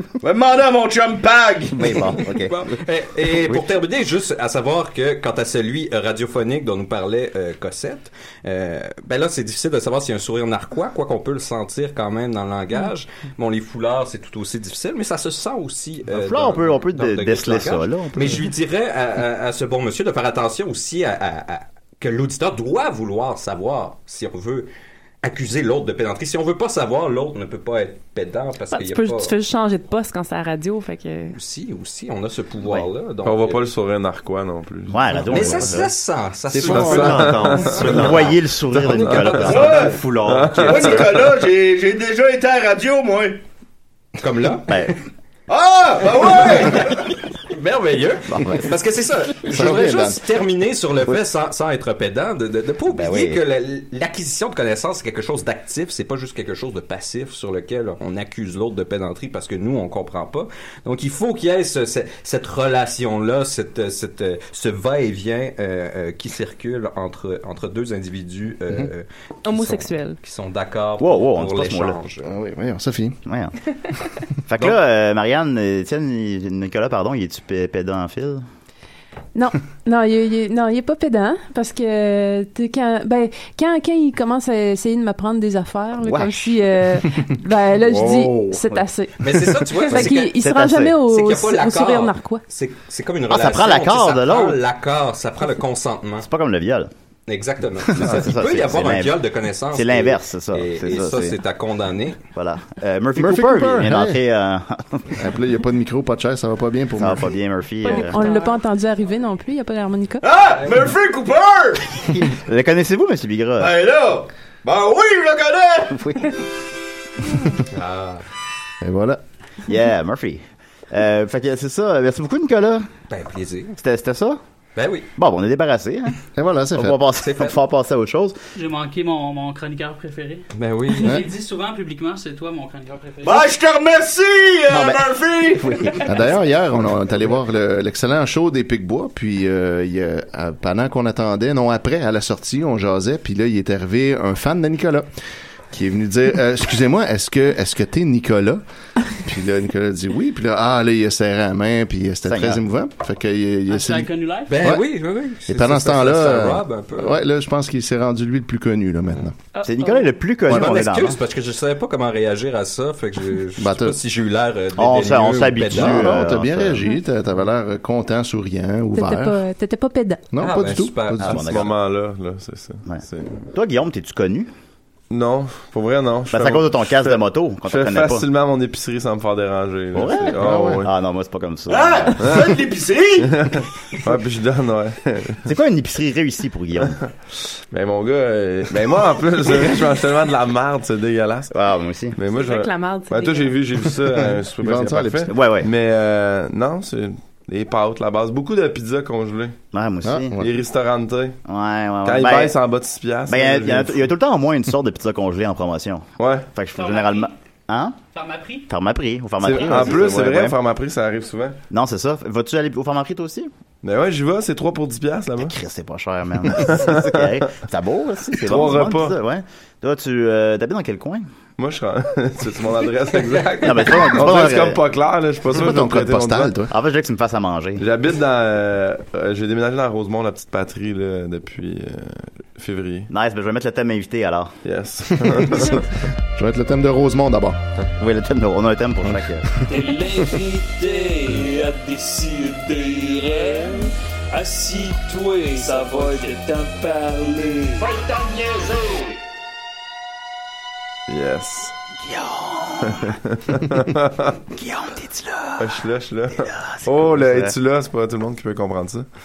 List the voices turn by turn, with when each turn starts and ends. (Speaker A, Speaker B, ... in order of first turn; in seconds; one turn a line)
Speaker A: 0.2-2.0
Speaker B: 1.7-2.5
Speaker C: 2.5-24.7
Speaker B: 16.1-18.4
Speaker C: 25.2-29.3
Speaker D: 28.7-31.4
Speaker C: 31.3-33.6
Speaker E: 33.2-35.8
Speaker B: 34.9-35.9
Speaker C: 35.3-39.8
Speaker B: 36.5-41.1
Speaker E: 36.6-39.6
Speaker A: 39.4-40.0
Speaker E: 40.1-41.3
Speaker A: 40.6-43.4
Speaker C: 44.2-44.7
Speaker B: 44.7-44.9
Speaker A: 45.5-46.9
Speaker C: 46.2-72.3
Speaker B: 48.3-48.7
Speaker F: 49.4-50.2
Speaker B: 52.9-53.4
Speaker D: 69.5-70.2
Speaker B: 71.0-72.0
Speaker F: 72.2-73.2
Speaker B: 73.3-73.5
Speaker B: 74.5-78.4
Speaker G: 79.3-89.2
Speaker B: 86.0-86.6
Speaker B: 87.9-88.8
Speaker C: 89.2-90.3
Speaker B: 89.8-91.0
Speaker G: 89.9-92.4
Speaker C: 91.1-96.3
Speaker B: 93.3-94.6
Speaker B: 96.2-96.9
Speaker C: 97.3-102.2
Speaker B: 97.9-99.2
Speaker B: 99.7-101.4
Speaker B: 102.3-105.2
Speaker F: 103.2-104.2
Speaker F: 105.2-107.3
Speaker B: 107.0-108.2
Speaker D: 107.8-108.6
Speaker G: 107.9-110.2
Speaker A: 110.2-112.2
Speaker B: 112.1-113.8
Speaker A: 113.6-116.0
Speaker B: 115.9-116.3
Speaker C: 117.7-118.2
Speaker F: 118.8-119.2
Speaker B: 119.7-122.9
Speaker C: 123.1-123.8
Speaker B: 123.8-124.4
Speaker C: 124.8-125.1
Speaker B: 125.2-126.2
Speaker F: 126.3-127.0
Speaker B: 126.7-128.4
Speaker C: 127.2-127.6
Speaker H: 128.6-133.5
Speaker C: 130.5-131.2
Speaker F: 131.0-131.3
Speaker A: 133.2-136.0
Speaker B: 134.7-136.2
Speaker F: 136.1-145.1
Speaker F: 145.7-148.6
Speaker F: 149.2-154.1
Speaker B: 152.2-152.6
Speaker H: 153.7-154.6
Speaker C: 154.5-157.2
Speaker F: 155.5-159.4
Speaker D: 159.6-160.1
Speaker B: 159.6-161.2
Speaker C: 160.5-166.2
Speaker F: 163.6-164.0
Speaker B: 164.8-166.9
Speaker F: 165.7-169.4
Speaker G: 168.9-170.2
Speaker F: 170.3-171.4
Speaker C: 170.4-171.4
Speaker B: 171.2-171.8
Speaker E: 171.3-173.4
Speaker B: 172.9-174.5
Speaker E: 175.1-180.9
Speaker B: 176.3-178.3
Speaker B: 179.9-182.2
Speaker F: 180.3-180.8
Speaker A: 181.7-183.4
Speaker E: 183.2-185.5
Speaker B: 185.5-187.0
Speaker E: 187.7-191.5
Speaker B: 191.5-192.2
Speaker E: 192.2-199.6
Speaker D: 192.3-193.7
Speaker F: 194.2-195.3
Speaker B: 195.3-195.7
Speaker B: 199.7-200.3
Speaker F: 200.0-200.5
Speaker E: 200.4-201.4
Speaker B: 201.4-202.6
Speaker E: 202.0-204.1
Speaker B: 203.3-208.0
Speaker E: 206.2-206.5
Speaker H: 206.7-207.3
Speaker H: 208.1-208.7
Speaker B: 208.7-210.6
Speaker E: 209.4-211.6
Speaker H: 209.6-210.0
Speaker B: 211.7-213.5
Speaker E: 213.8-215.6
Speaker B: 215.4-221.3
Speaker E: 216.4-217.4
Speaker E: 218.4-219.2
Speaker E: 221.6-226.6
Speaker B: 223.6-224.8
Speaker F: 225.5-226.7
Speaker B: 226.7-227.9
Speaker E: 227.8-233.1
Speaker B: 233.1-234.6
Speaker E: 234.7-235.9
Speaker F: 235.3-235.8
Speaker F: 236.3-237.6
Speaker B: 238.0-239.5
Speaker I: 239.7-249.2
Speaker E: 251.1-251.8
Speaker B: 252.0-253.2
Speaker E: 252.8-254.4
Speaker B: 254.6-255.8
Speaker E: 255.6-259.1
Speaker B: 256.3-257.6